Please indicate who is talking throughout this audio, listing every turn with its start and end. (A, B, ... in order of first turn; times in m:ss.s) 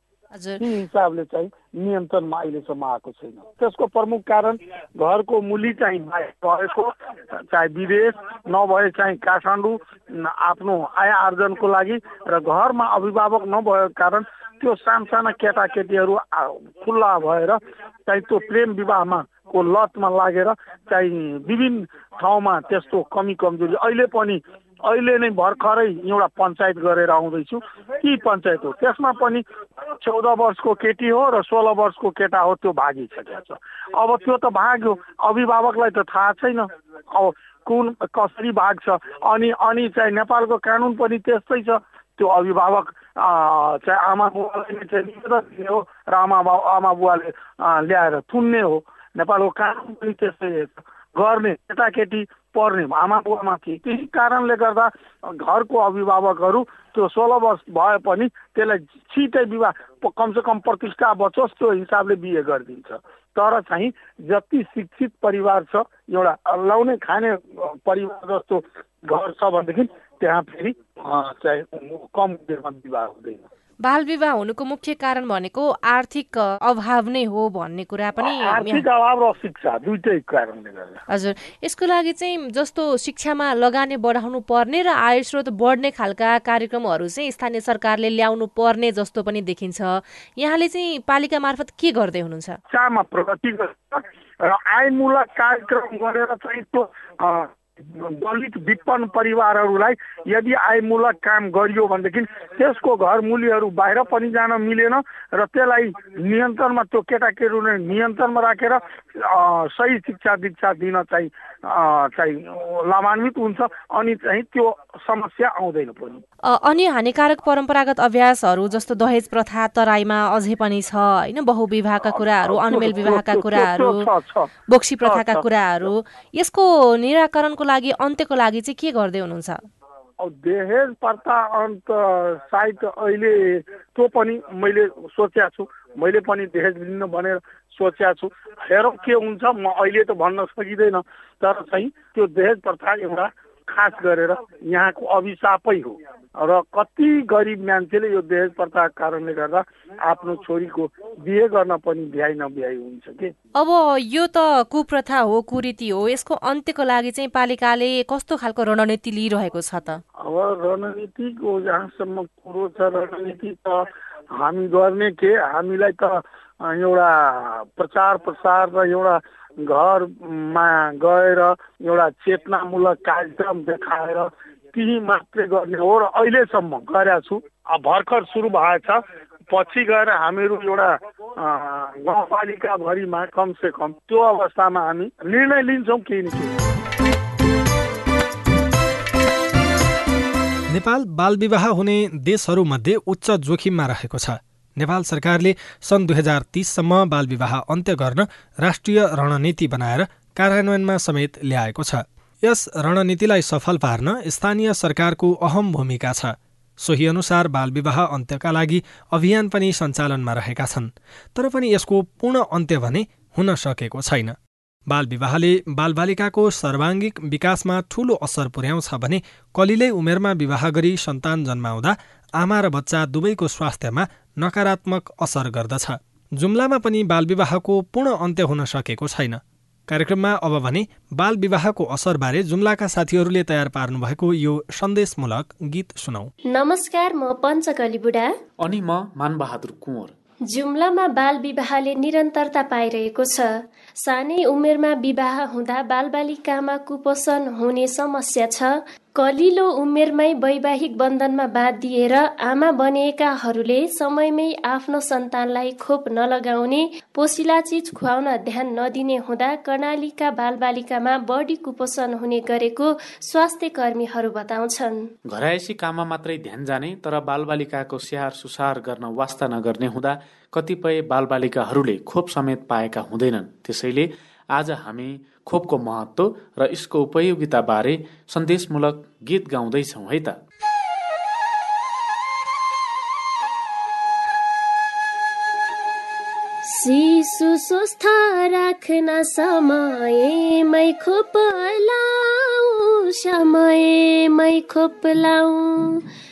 0:00.3-0:00.6 A
0:00.6-1:13.4 B
1:13.8-1:18.8 A
1:18.2-1:21.0 B
1:21.1-1:32.6 A
1:32.7-1:56.2 B
1:56.5-2:04.1 A
2:02.0-2:04.5 B
2:04.7-2:09.6 A
2:05.0-2:05.4 B
2:10.2-2:33.3 B
2:33.6-2:40.0 A
2:40.2-3:06.7 B
3:10.7-3:34.4 C
3:34.9-3:56.3 C
3:56.5-3:58.4 D
3:58.6-4:00.2 E
4:00.5-4:25.1 D
4:25.3-4:40.4 E
4:46.6-4:56.0 D